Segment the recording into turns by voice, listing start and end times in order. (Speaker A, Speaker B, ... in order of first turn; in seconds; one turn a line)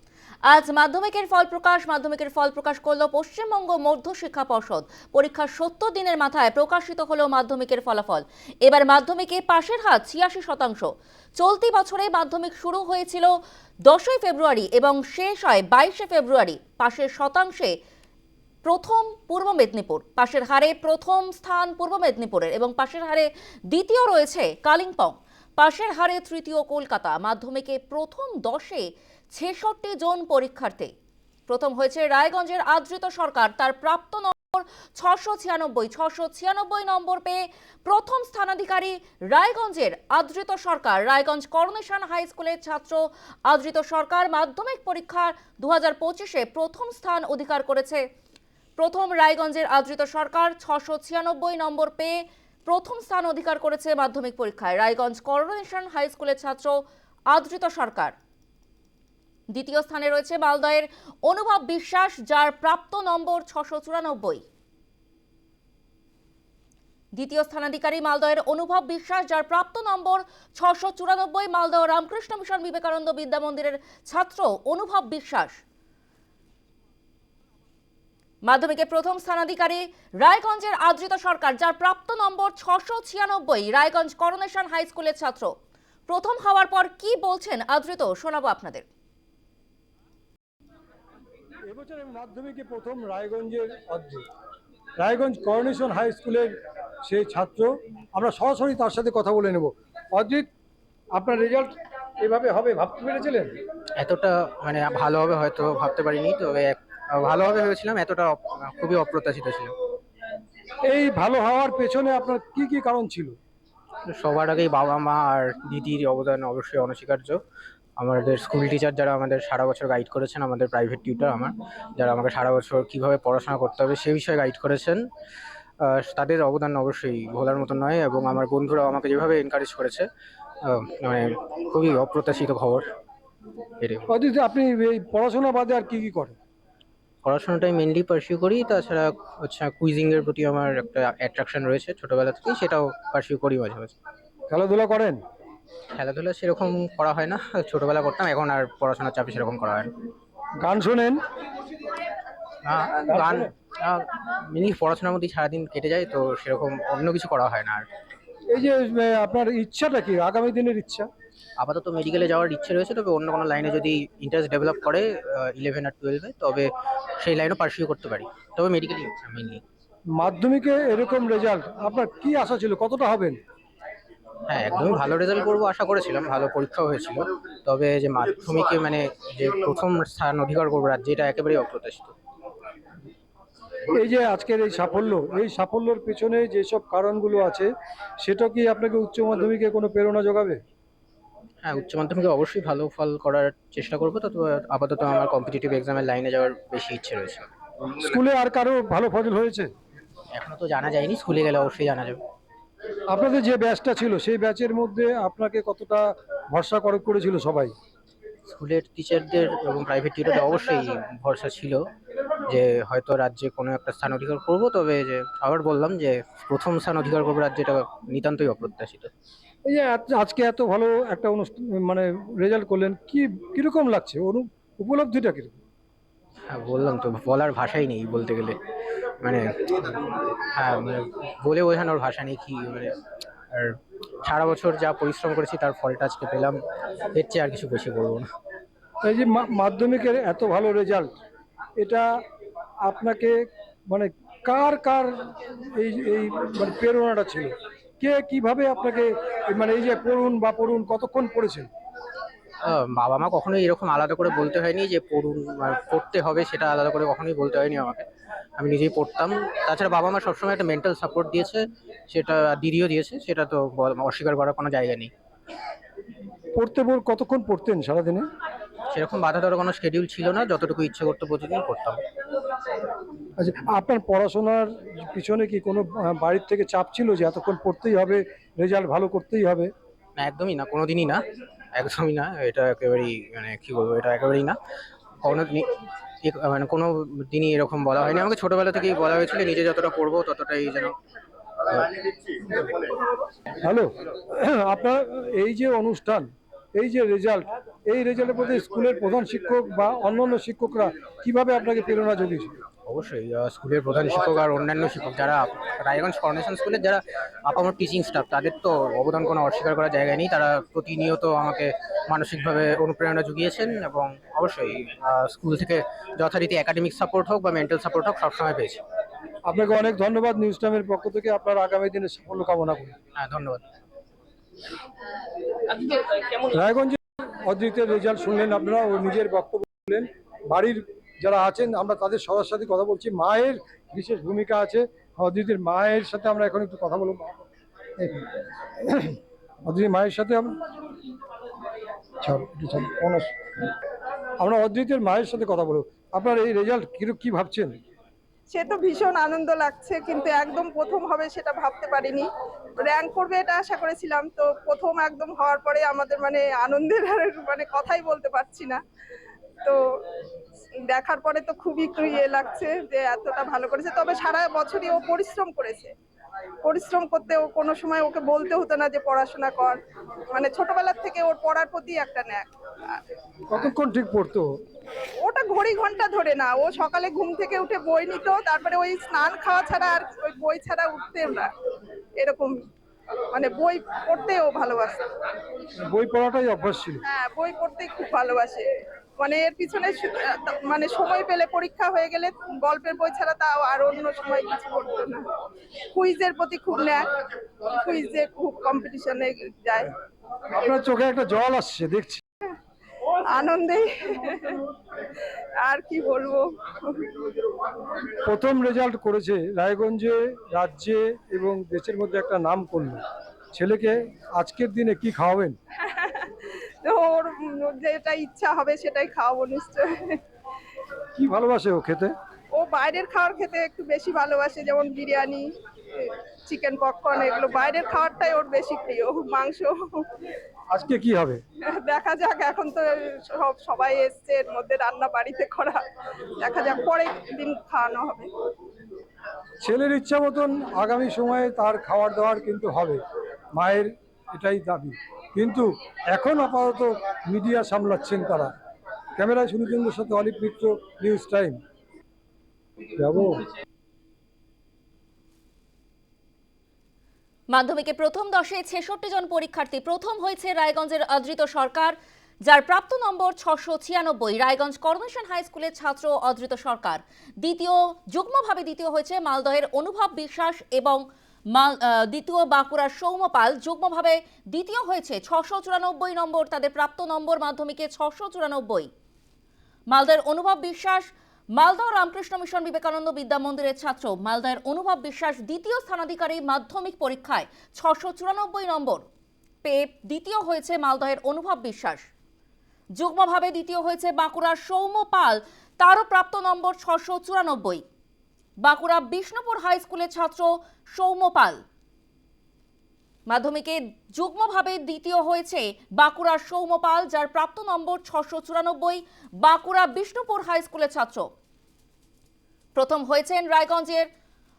Speaker A: 0.5-10.9
Speaker A: 11.4-13.3
Speaker A: 13.9-17.7
Speaker A: 18.6-30.9
Speaker A: 31.5-48.0
Speaker A: 48.8-52.1
Speaker A: 52.7-56.8
Speaker A: 57.3-58.1
Speaker A: 59.5-64.4
Speaker A: 67.2-75.6
Speaker A: 78.5-85.5
Speaker A: 86.1-88.8
Speaker B: 91.7-94.2
Speaker B: 95.0-96.5
Speaker B: 97.0-100.5
Speaker B: 101.2-101.7
Speaker B: 102.2-103.5
Speaker C: 104.0-109.7
Speaker B: 110.9-113.3
Speaker C: 114.0-117.4
Speaker C: 118.0-125.0
Speaker C: 125.8-130.1
Speaker C: 130.6-132.8
Speaker C: 133.8-134.1
Speaker B: 134.1-136.3
Speaker C: 137.2-143.9
Speaker B: 144.5-145.2
Speaker C: 145.9-149.9
Speaker B: 150.6-151.2
Speaker C: 152.6-157.8
Speaker B: 158.5-161.0
Speaker C: 161.6-169.6
Speaker B: 170.2-173.3
Speaker C: 174.5-182.1
Speaker B: 184.0-187.7
Speaker B: 188.2-190.5
Speaker C: 191.6-197.4
Speaker B: 198.1-199.6
Speaker C: 200.3-202.2
Speaker B: 203.1-206.0
Speaker B: 206.6-207.7
Speaker C: 208.5-211.8
Speaker C: 212.5-219.1
Speaker B: 219.7-225.5
Speaker C: 226.5-228.6
Speaker C: 229.2-232.9
Speaker C: 233.5-238.2
Speaker B: 239.1-241.1
Speaker B: 242.9-243.3
Speaker B: 243.9-245.1
Speaker B: 245.8-247.5
Speaker B: 248.0-251.7
Speaker C: 252.6-258.0
Speaker C: 258.6-265.1
Speaker B: 266.6-268.2
Speaker C: 268.9-272.0
Speaker B: 273.4-279.7
Speaker C: 280.2-281.2
Speaker C: 281.7-284.6
Speaker C: 285.2-285.7
Speaker C: 286.2-290.9
Speaker C: 291.7-292.0
Speaker B: 293.6-296.2
Speaker B: 296.8-302.5
Speaker C: 302.9-318.8
Speaker B: 319.5-322.9
Speaker C: 323.1-323.6
Speaker B: 326.5-337.4
Speaker B: 339.7-340.5
Speaker B: 342.2-343.2
Speaker B: 344.4-347.7
Speaker D: 348.5-352.3
Speaker D: 352.8-358.8
Speaker D: 360.9-365.9
Speaker D: 366.6-369.8
Speaker D: 370.3-372.5
Speaker B: 373.5-374.4
Speaker D: 375.2-381.5
Speaker D: 382.2-382.5
Speaker D: 383.3-385.0
Speaker B: 385.9-387.0
Speaker D: 387.1-388.6
Speaker D: 389.2-395.2
Speaker D: 395.9-397.0
Speaker D: 397.7-399.8
Speaker B: 400.5-402.2
Speaker D: 403.3-404.5
Speaker D: 405.6-406.9
Speaker B: 408.2-413.0
Speaker B: 413.6-415.5
Speaker D: 415.9-416.3
Speaker D: 416.8-420.1
Speaker B: 421.2-422.1
Speaker D: 422.6-425.4
Speaker D: 426.0-430.0
Speaker B: 430.7-431.4
Speaker D: 431.9-435.8
Speaker D: 436.4-438.3
Speaker B: 439.6-443.0
Speaker B: 443.6-448.5
Speaker B: 449.2-451.6
Speaker B: 453.0-453.4
Speaker A: 457.5-478.9
Speaker A: 479.9-489.0
Speaker A: 489.6-492.0
Speaker A: 493.0-497.8
Speaker A: 498.6-501.6
Speaker A: 503.3-511.2
Speaker A: 512.8-514.1